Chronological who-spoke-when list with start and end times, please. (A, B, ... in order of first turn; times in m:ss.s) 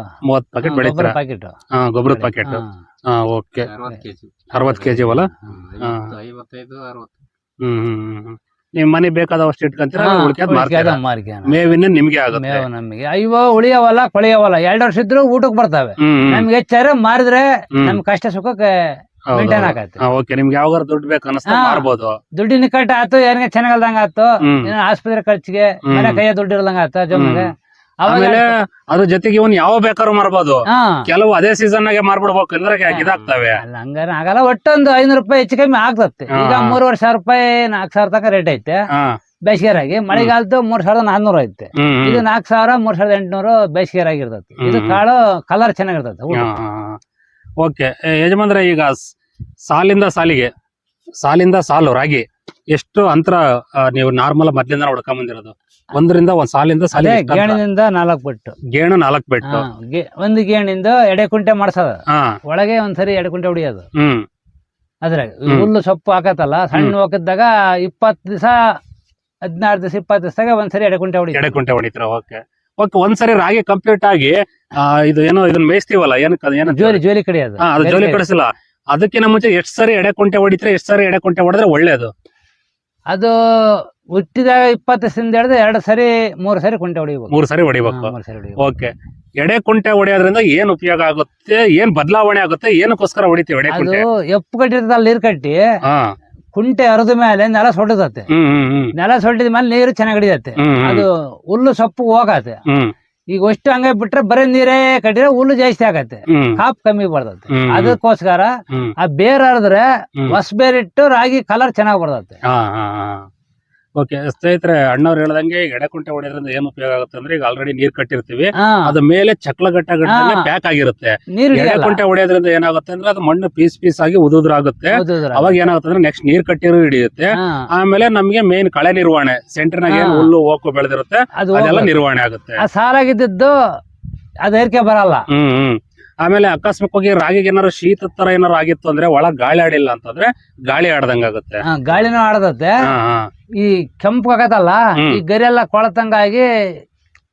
0:00.2-0:01.2 A
0:00.6-0:01.6 B
0:01.7-0:03.7 A
0:02.1-0:02.8 B
0:03.6-0:07.2 C
0:04.5-0:06.2 A
0:07.6-0:12.6 A
0:10.0-0:11.6 B
0:12.3-0:20.0 B
0:16.0-0:16.5 A
0:19.3-0:22.2 A
0:21.5-0:21.8 B
0:22.4-0:27.5 B
0:24.4-0:24.7 A
0:25.9-0:26.2 A
0:27.1-0:27.5 A
0:28.0-0:28.5 B
0:28.0-0:33.6 A
0:30.7-0:31.0 B
0:32.9-0:38.8 B
0:36.3-0:36.8 A
0:39.4-0:46.5 B
0:41.8-0:42.2 A
0:44.6-0:45.0 A
0:46.3-0:47.0 A
0:47.6-0:49.0 A
0:49.7-0:50.5 A
0:51.2-0:57.6 A
0:56.9-0:58.6 B
0:58.7-0:59.6 A
0:59.4-1:03.9 B
1:02.1-1:02.4 A
1:04.0-1:04.2 A
1:05.0-1:08.6 B
1:09.5-1:11.6 B
1:11.3-1:17.0 A
1:16.7-1:18.2 B
1:17.6-1:22.1 A
1:23.1-1:28.8 B
1:27.3-1:34.0 A
1:33.7-1:35.6 B
1:35.8-1:36.1 A
1:36.5-1:38.3 B
1:38.3-1:38.9 A
1:39.0-1:42.6 B
1:40.6-1:41.1 A
1:42.7-1:42.9 A
1:43.3-1:52.4 B
1:46.3-1:46.6 A
1:47.5-1:48.0 A
1:52.5-1:53.3 A
1:54.0-2:12.6 A
1:58.6-1:58.9 B
2:00.1-2:00.5 B
2:01.3-2:02.0 B
2:04.9-2:05.6 B
2:07.3-2:07.6 B
2:09.9-2:10.3 B
2:11.4-2:12.0 B
2:12.6-2:13.5 B
2:14.4-2:15.2 B
2:15.3-2:21.6 A
2:21.6-2:22.7 B
2:22.8-2:23.3 A
2:23.6-2:26.5 B